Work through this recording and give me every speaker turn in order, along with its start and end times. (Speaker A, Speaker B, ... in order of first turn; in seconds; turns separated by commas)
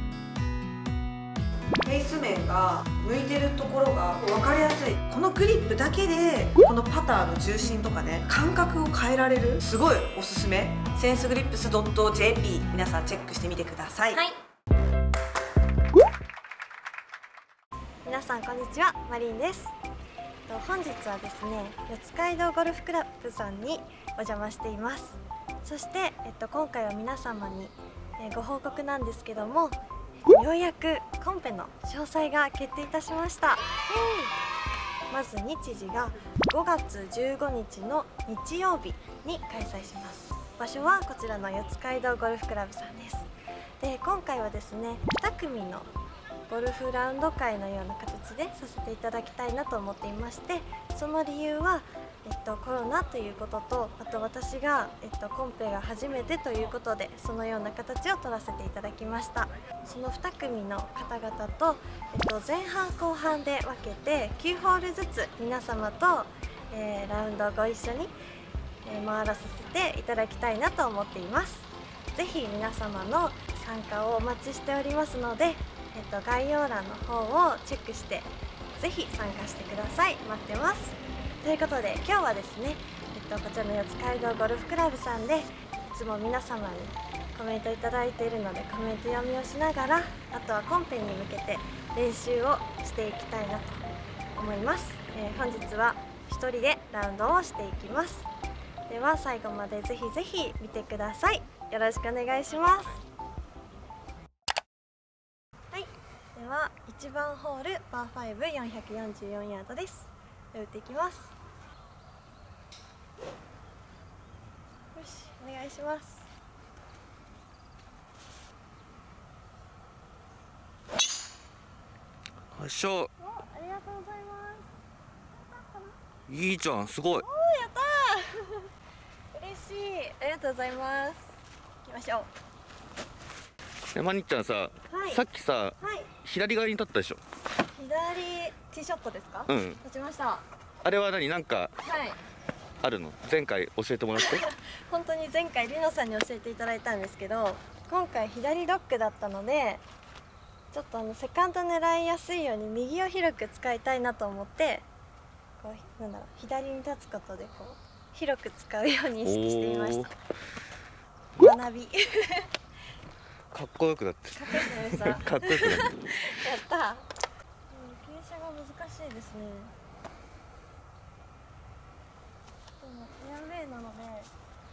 Speaker A: 1.8-14.2, Speaker B: 18.0-19.7, Speaker B: 20.5-29.8, Speaker B: 30.3-34.3, Speaker B: 35.1-43.3, Speaker B: 43.8-45.9, Speaker B: 46.5-68.1, Speaker B: 68.8-93.8, Speaker B: 94.3-98.3, Speaker B: 98.9-103.0, Speaker B: 105.7-111.3, Speaker B: 114.9-116.3, Speaker C: 122.5-123.1, Speaker B: 123.2-124.7, Speaker B: 125.3-126.0, Speaker C: 126.3-127.2, Speaker B: 127.2-128.7, Speaker B: 129.3-132.3, Speaker C: 133.9-137.2, Speaker B: 134.9-135.2, Speaker B: 135.8-136.1, Speaker B: 137.7-140.4, Speaker C: 139.5-139.8, Speaker C: 140.8-141.7, Speaker B: 141.8-142.2, Speaker C: 142.8-144.4, Speaker B: 144.2-149.8, Speaker B: 150.7-154.8, Speaker B: 155.6-160.1, Speaker C: 159.2-160.1, Speaker B: 161.4-162.5, Speaker C: 163.5-165.9, Speaker B: 164.3-167.1, Speaker B: 167.7-169.7, Speaker B: 172.8-174.3